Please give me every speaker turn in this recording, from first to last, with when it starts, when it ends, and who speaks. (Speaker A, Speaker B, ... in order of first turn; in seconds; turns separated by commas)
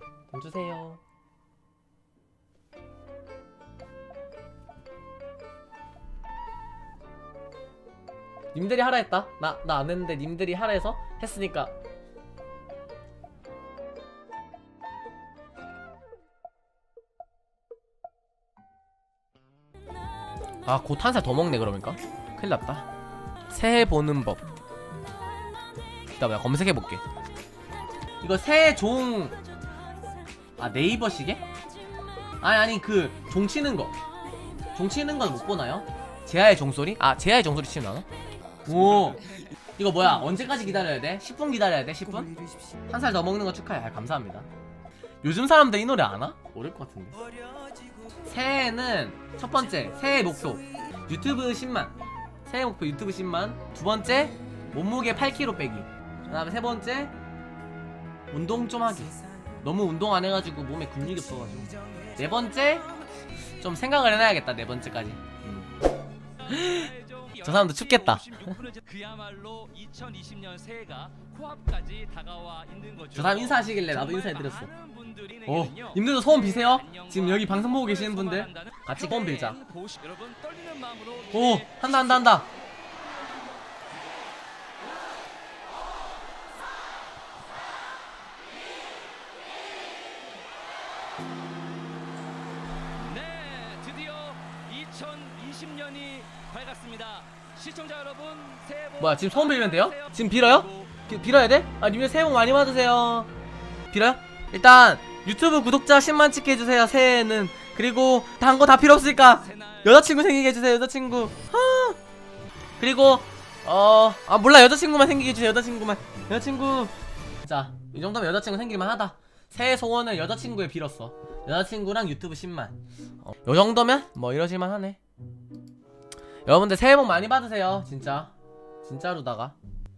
Speaker A: 0.3-1.0, Speaker A: 8.5-11.7, Speaker A: 20.6-22.9, Speaker A: 23.5-24.5, Speaker A: 26.1-27.0, Speaker A: 28.2-29.4, Speaker A: 30.6-31.4, Speaker A: 32.4-34.0, Speaker A: 34.7-38.1, Speaker A: 38.7-44.5, Speaker A: 45.2-47.2, Speaker A: 48.2-57.1, Speaker A: 58.3-63.0, Speaker A: 63.5-65.7, Speaker A: 66.5-68.6, Speaker B: 66.6-81.9, Speaker A: 73.1-74.7, Speaker A: 75.5-79.6, Speaker A: 81.3-82.5, Speaker B: 93.0-101.0, Speaker A: 99.0-103.3, Speaker A: 103.9-112.0, Speaker B: 109.5-109.9, Speaker A: 112.8-125.0, Speaker A: 126.5-128.3, Speaker A: 128.8-129.6